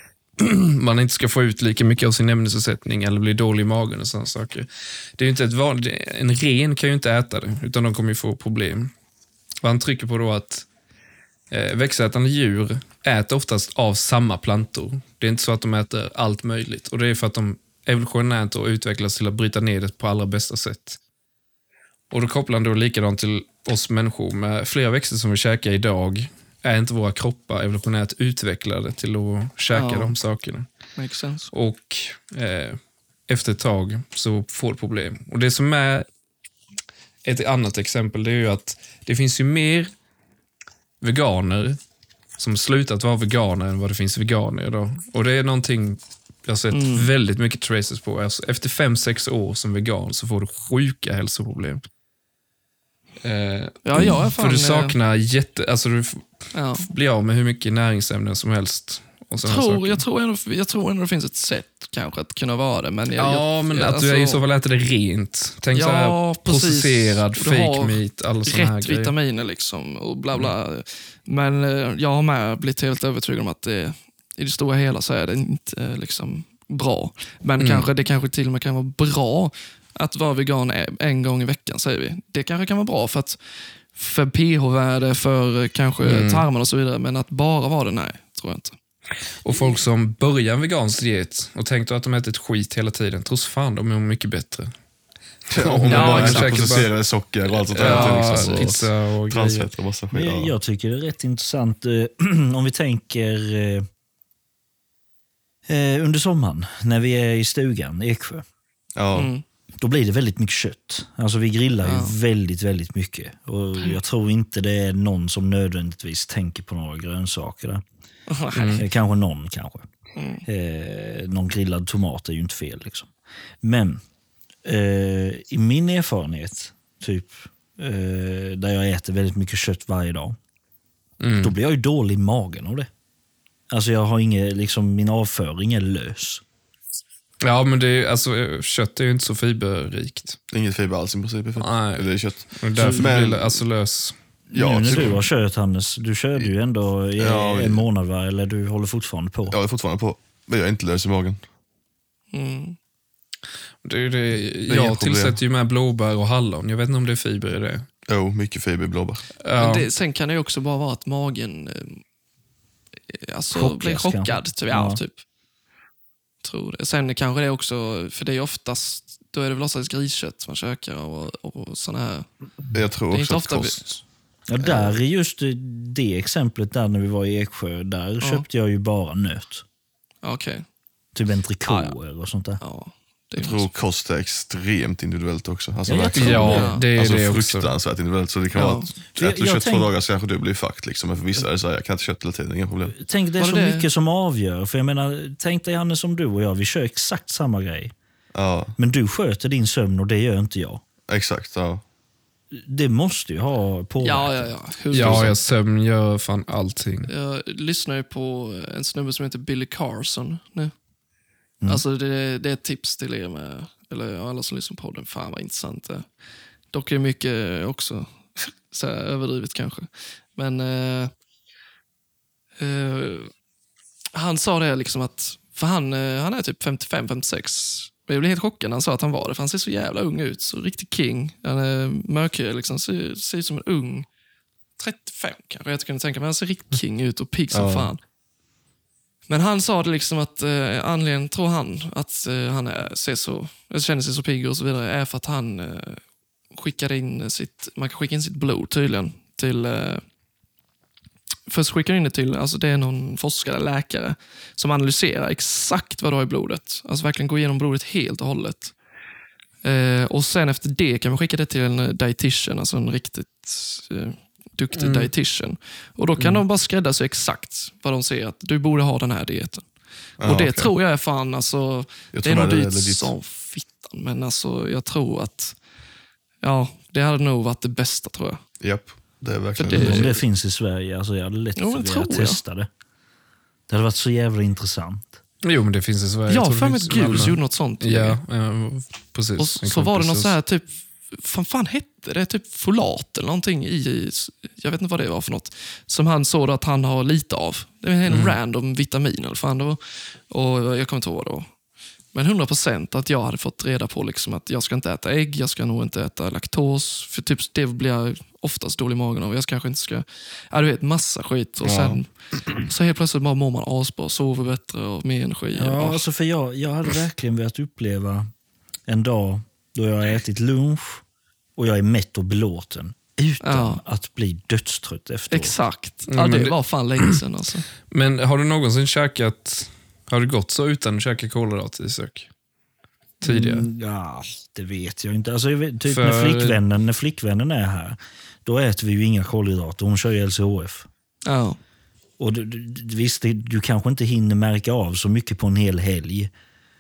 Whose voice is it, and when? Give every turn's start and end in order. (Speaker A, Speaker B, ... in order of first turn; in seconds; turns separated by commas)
Speaker A: 0.4-8.9, Speaker A: 9.6-10.7, Speaker A: 11.5-21.0, Speaker A: 22.1-30.7, Speaker B: 29.7-30.1, Speaker B: 31.0-31.5, Speaker A: 31.5-36.1, Speaker A: 37.2-39.9, Speaker A: 41.0-41.8, Speaker A: 42.4-51.8, Speaker B: 46.7-47.1, Speaker A: 53.2-56.2, Speaker B: 53.9-55.0, Speaker B: 56.5-56.8, Speaker A: 56.8-60.0, Speaker B: 59.4-64.4, Speaker A: 63.2-69.1, Speaker B: 65.7-83.4, Speaker A: 77.6-77.9, Speaker B: 83.9-88.8, Speaker A: 86.0-86.5, Speaker A: 89.4-94.7, Speaker C: 95.5-100.5, Speaker A: 95.5-96.9, Speaker B: 95.9-96.6, Speaker B: 97.5-98.8, Speaker A: 97.7-99.7, Speaker D: 100.1-103.9, Speaker D: 105.7-108.4, Speaker C: 109.0-109.3, Speaker B: 109.1-109.4, Speaker D: 109.8-117.8, Speaker B: 111.8-112.1, Speaker B: 118.3-118.8, Speaker A: 118.5-118.8, Speaker D: 118.8-119.8, Speaker B: 120.2-120.4, Speaker D: 120.4-123.1, Speaker D: 123.6-124.0, Speaker D: 124.6-130.4, Speaker A: 131.2-131.6, Speaker D: 131.4-132.9, Speaker D: 133.7-136.4, Speaker A: 137.4-140.4, Speaker C: 140.5-143.6, Speaker A: 141.6-144.2, Speaker D: 142.8-143.1, Speaker D: 144.5-149.6, Speaker C: 144.5-145.2, Speaker C: 147.2-147.8, Speaker C: 149.5-151.4, Speaker B: 152.3-152.8, Speaker A: 153.8-157.9, Speaker C: 154.7-155.4, Speaker C: 158.1-159.2, Speaker A: 159.4-159.9, Speaker B: 159.5-162.0, Speaker B: 163.1-165.2, Speaker D: 163.5-165.0, Speaker B: 166.4-172.3, Speaker C: 172.7-173.9, Speaker B: 173.1-174.0, Speaker D: 174.5-179.6, Speaker C: 174.6-174.9, Speaker B: 178.2-178.4, Speaker B: 180.2-180.7, Speaker D: 181.1-182.6, Speaker B: 181.7-181.9, Speaker B: 182.6-183.7, Speaker C: 183.4-193.0, Speaker D: 185.9-186.7, Speaker A: 186.1-187.7, Speaker B: 186.2-186.9, Speaker B: 188.6-188.9, Speaker D: 189.2-189.9, Speaker D: 192.9-197.9, Speaker B: 193.4-193.9, Speaker C: 198.3-198.8, Speaker D: 198.8-200.8, Speaker C: 201.1-201.8, Speaker D: 202.5-205.4, Speaker B: 204.0-205.4, Speaker A: 204.9-207.1, Speaker B: 207.1-210.7, Speaker B: 211.7-216.1, Speaker B: 216.7-221.1, Speaker B: 222.6-223.3, Speaker B: 224.1-234.1, Speaker B: 234.8-238.0, Speaker C: 237.5-237.9, Speaker B: 239.3-246.0, Speaker B: 246.5-250.0, Speaker B: 251.5-258.7, Speaker B: 259.6-269.6, Speaker A: 264.8-265.1, Speaker A: 266.2-266.4, Speaker C: 270.2-270.7, Speaker B: 270.2-275.6, Speaker C: 272.1-273.1, Speaker B: 276.4-278.4, Speaker C: 278.6-280.1, Speaker B: 279.6-280.2, Speaker D: 279.7-282.7, Speaker B: 281.6-282.4, Speaker D: 283.7-285.2, Speaker A: 285.4-290.4, Speaker B: 286.3-288.2, Speaker B: 289.4-301.5, Speaker A: 298.1-298.4, Speaker B: 302.1-316.1, Speaker C: 311.6-312.0, Speaker D: 315.6-318.3, Speaker D: 318.9-321.0, Speaker D: 321.6-325.6, Speaker B: 323.4-323.8, Speaker B: 325.3-327.6, Speaker A: 326.1-327.2, Speaker A: 327.9-332.3, Speaker A: 333.2-333.7, Speaker D: 333.2-340.9, Speaker A: 335.9-336.6, Speaker B: 341.3-341.6, Speaker D: 342.2-346.3